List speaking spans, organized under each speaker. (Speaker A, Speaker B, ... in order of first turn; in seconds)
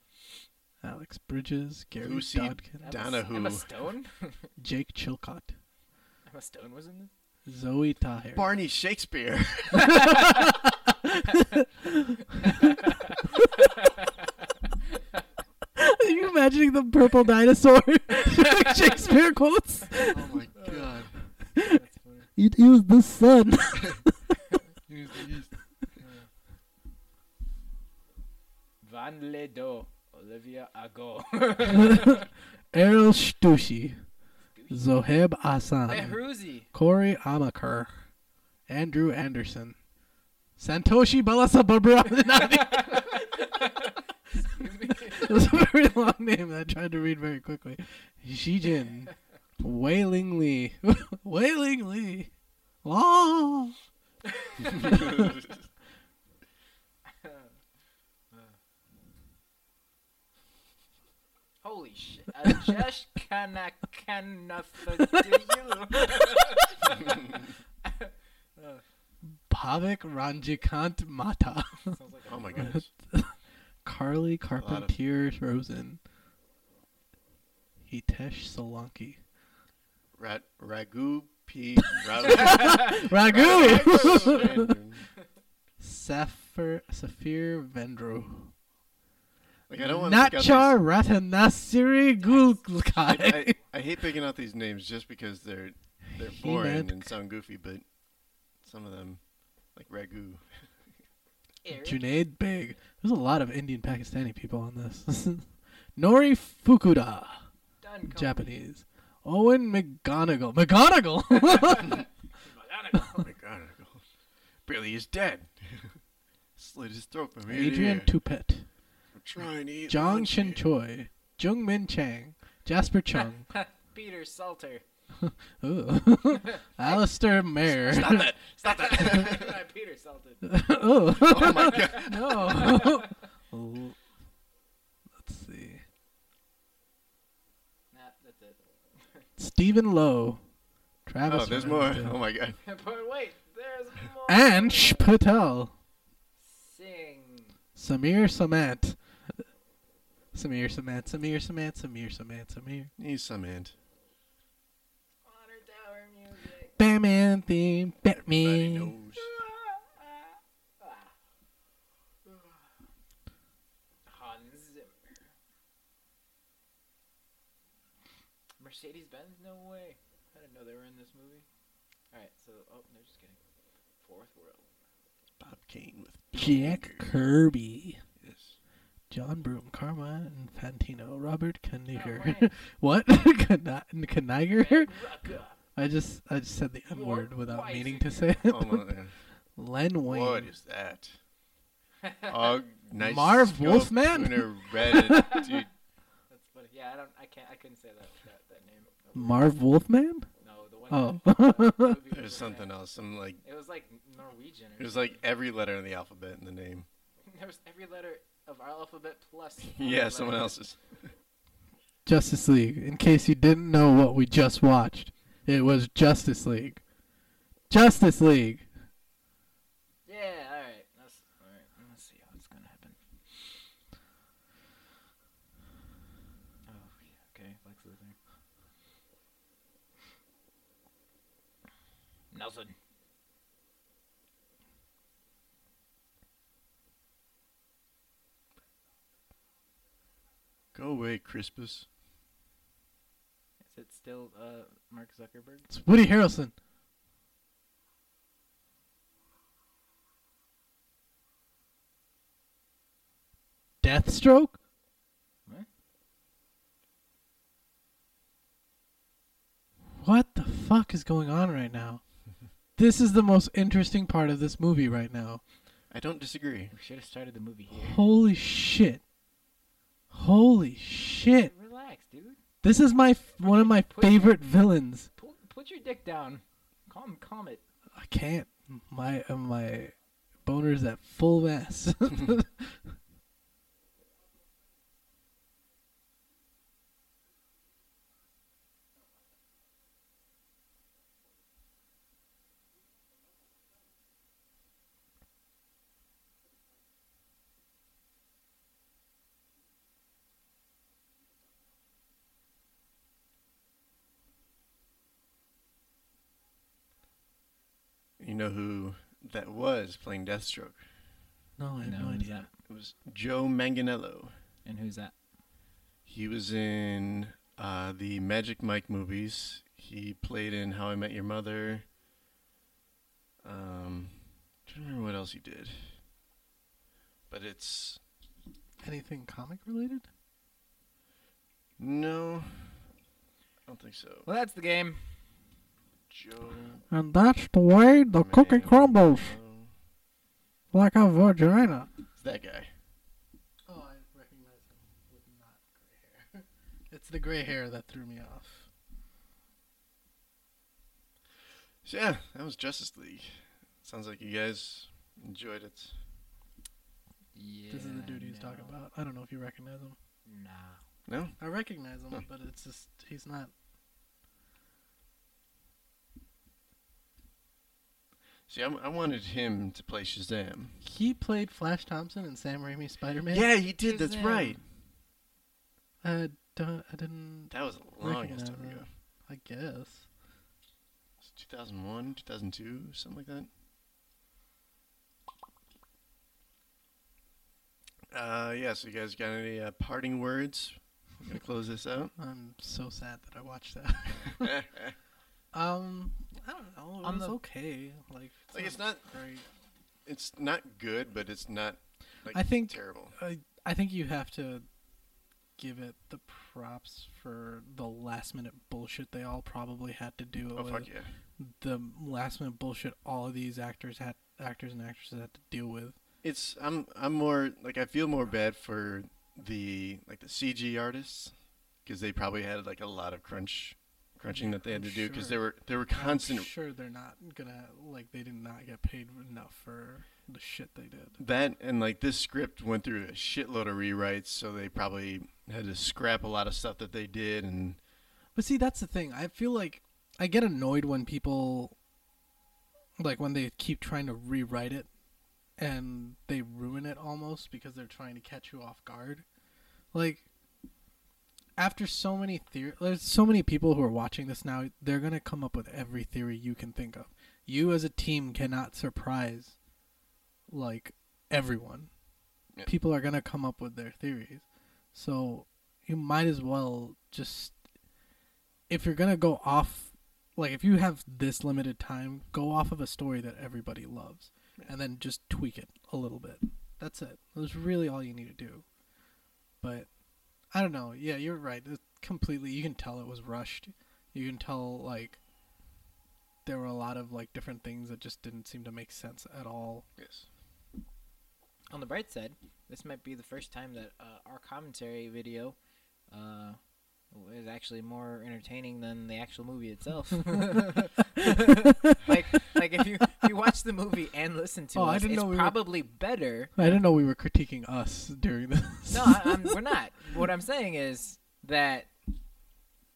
Speaker A: 0.8-2.9, 4.6-5.5, 7.5-8.5, 9.9-12.8, 15.7-20.2, 21.5-21.8, 22.4-24.3, 31.7-34.0, 34.7-36.2, 36.7-38.1, 38.7-39.8, 40.6-43.6, 44.5-52.3, 52.8-53.8, 54.8-55.3, 65.1-65.5, 69.5-72.0, 72.5-76.0, 77.9-79.2, 82.0-84.7, 85.8-88.5, 89.8-93.6, 96.0-97.1, 101.7-107.5, 108.1-112.0, 117.5-118.7, 119.9-123.5, 125.2-128.3, 130.4-134.0, 135.2-135.8, 139.4-140.4, 141.1-142.2, 144.3-145.7, 147.8-149.5, 150.3-152.9, 156.8-158.9, 176.3-178.0, 179.1-185.1, 185.7-190.5, 193.0-195.4, 199.1-200.3, 200.9-202.0, 212.1-216.8, 217.7-218.7, 245.7-246.5, 253.8-254.6, 260.0-262.0, 262.8-265.4, 267.7-269.0, 270.1-271.5, 272.6-275.1, 277.9-279.9, 280.4-282.9, 311.6-312.4, 328.8-330.1, 336.9-339.4, 340.7-341.9, 343.7-348.7, 357.7-359.9, 361.4-363.5, 370.8-373.5, 376.0-380.1, 392.1-394.6, 395.5-399.5, 402.3-404.7, 405.6-415.9, 424.3-431.2, 438.4-441.8, 443.0-444.9, 445.6-449.2, 449.9-450.3, 451.6-459.6, 460.5-461.9, 462.6-467.6, 468.7-478.6, 479.6-479.9, 480.5-485.2, 486.4-489.9, 504.7-505.6, 506.6-509.6
Speaker B: 2.0-3.7, 8.3-10.0, 20.1-21.1, 24.9-25.5, 54.6-55.7, 66.9-67.5, 72.3-72.9, 74.5-74.9, 80.2-85.1, 89.7-90.8, 93.1-97.8, 98.6-99.2, 99.7-100.7, 113.2-114.0, 114.7-116.0, 116.5-118.1, 119.1-120.6, 127.9-129.6, 131.2-132.7, 141.2-142.6, 153.0-153.7, 158.1-159.3, 175.4-177.1, 178.2-178.6, 188.5-189.2, 190.1-191.2, 192.3-195.7, 202.1-203.4, 204.8-206.9, 209.6-211.1, 240.7-241.9, 265.9-266.7, 308.2-310.9, 312.6-314.3, 316.1-321.9, 323.4-326.0, 327.3-328.0, 331.8-332.8, 333.7-334.3, 336.1-336.8, 338.1-339.7, 342.2-342.7, 351.8-356.0, 361.1-361.4, 368.5-370.8, 373.3-374.6, 377.5-378.9, 381.2-383.5, 388.1-392.1, 394.4-394.9, 398.5-399.0, 400.0-403.1, 410.5-411.2, 416.2-421.3, 421.8-426.5, 431.2-437.8, 490.0-490.3
Speaker C: 2.8-4.5, 6.3-7.1, 12.4-15.2, 18.2-19.0, 20.5-22.3, 26.0-26.3, 28.8-32.3, 34.5-34.9, 35.9-36.7, 42.4-45.5, 54.2-55.0, 57.1-57.5, 61.6-68.8, 71.8-72.8, 82.2-84.6, 92.2-92.9, 101.6-102.1, 107.8-108.5, 111.7-113.3, 123.5-124.8, 126.8-130.8, 131.4-131.9, 132.5-133.1, 137.9-139.2, 142.6-145.1, 146.4-147.6, 155.2-156.7, 159.2-161.1, 162.2-162.6, 164.1-165.3, 168.6-171.4, 172.1-173.4, 174.0-174.7, 181.9-182.6, 184.5-185.6, 186.9-188.3, 192.0-192.6, 195.0-195.6, 196.3-199.4, 200.4-202.7, 203.4-205.2, 207.2-210.5, 220.1-223.6, 226.7-228.2, 232.3-232.8, 243.7-245.7, 266.7-268.0, 271.5-272.4, 273.4-274.3, 275.2-277.6, 311.8-312.5, 314.6-315.1, 334.3-335.2, 357.3-358.7, 360.2-360.8, 373.8-374.6, 397.0-397.4, 491.7-495.6, 496.1-496.6, 497.1-506.7, 508.9-511.9